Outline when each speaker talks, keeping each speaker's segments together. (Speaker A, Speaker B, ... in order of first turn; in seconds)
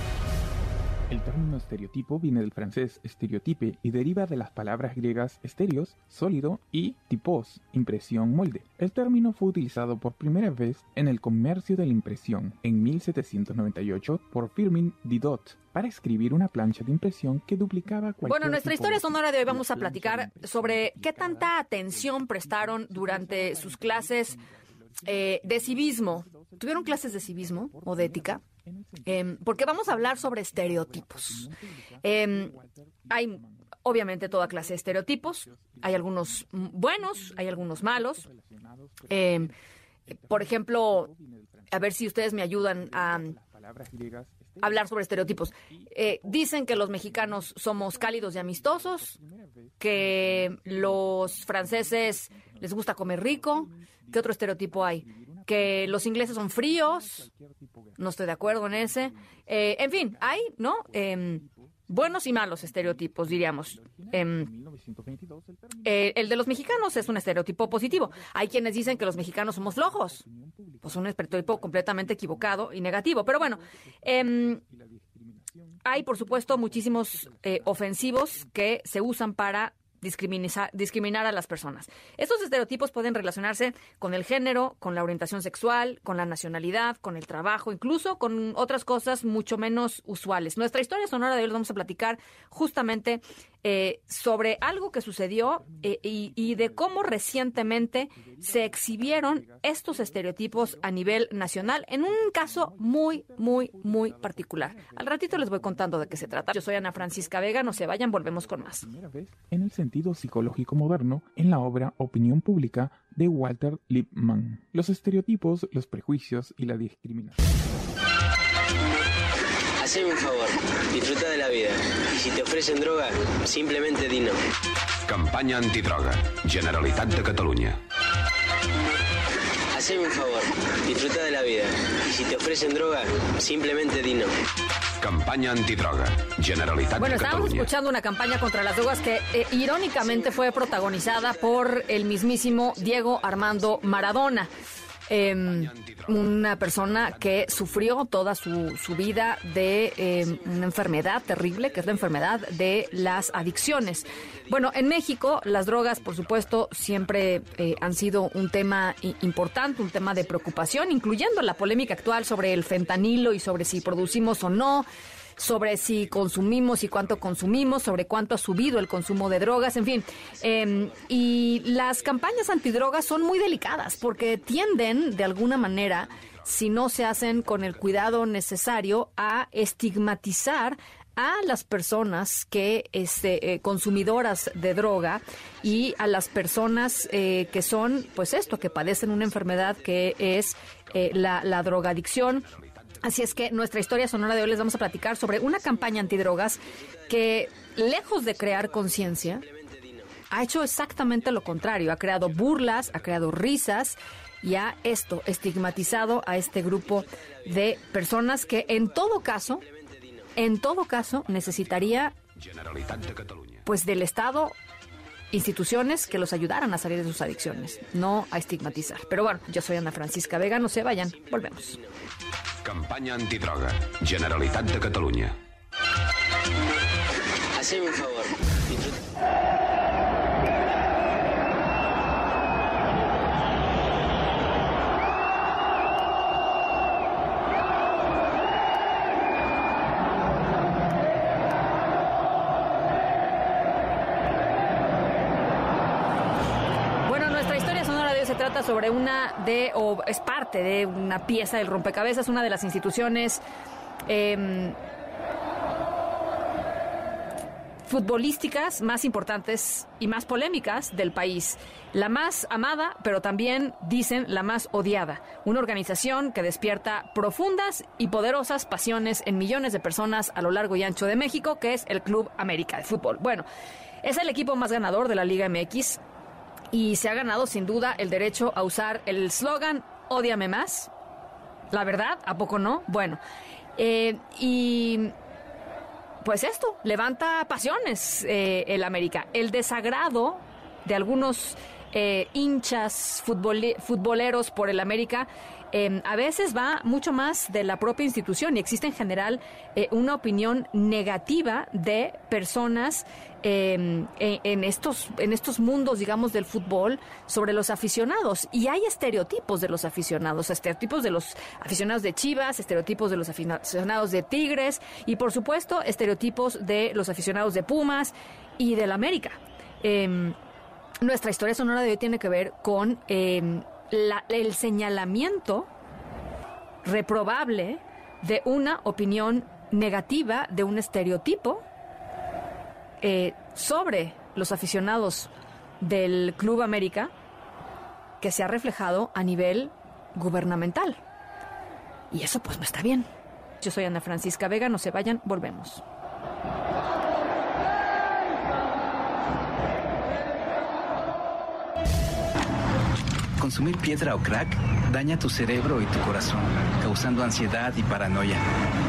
Speaker A: 1.1-39.5, 40.1-78.5, 95.4-117.4
Speaker B: 18.2-24.4, 25.1-28.4, 29.1-31.5, 32.0-32.5, 33.1-38.3, 39.1-39.5, 40.3-41.1, 41.7-43.4, 44.6-49.1, 49.8-57.3, 58.0-64.5, 65.8-70.2, 70.8-74.6, 75.8-108.9, 137.0-144.5, 145.1-164.9, 165.4-192.5, 193.0-199.5, 200.3-209.6, 210.4-212.2, 213.7-214.6, 215.3-221.8, 247.1-253.4, 254.1-254.8, 257.9-273.5, 274.0-276.0, 276.7-280.9, 281.7-283.2, 283.8-285.1, 286.2-320.4, 321.0-325.7, 326.8-331.6, 333.0-337.1, 338.2-341.0, 342.1-343.1, 343.6-345.8
Speaker C: 119.8-124.4, 129.7-134.3, 140.0-141.9, 198.6-200.0, 209.7-210.1, 221.1-221.8, 227.5-228.9
Speaker D: 125.1-127.8, 135.0-137.7, 145.5-146.2, 146.7-147.5, 167.0-167.3, 192.6-193.0, 212.4-213.6, 222.6-225.4
Speaker E: 353.4-358.4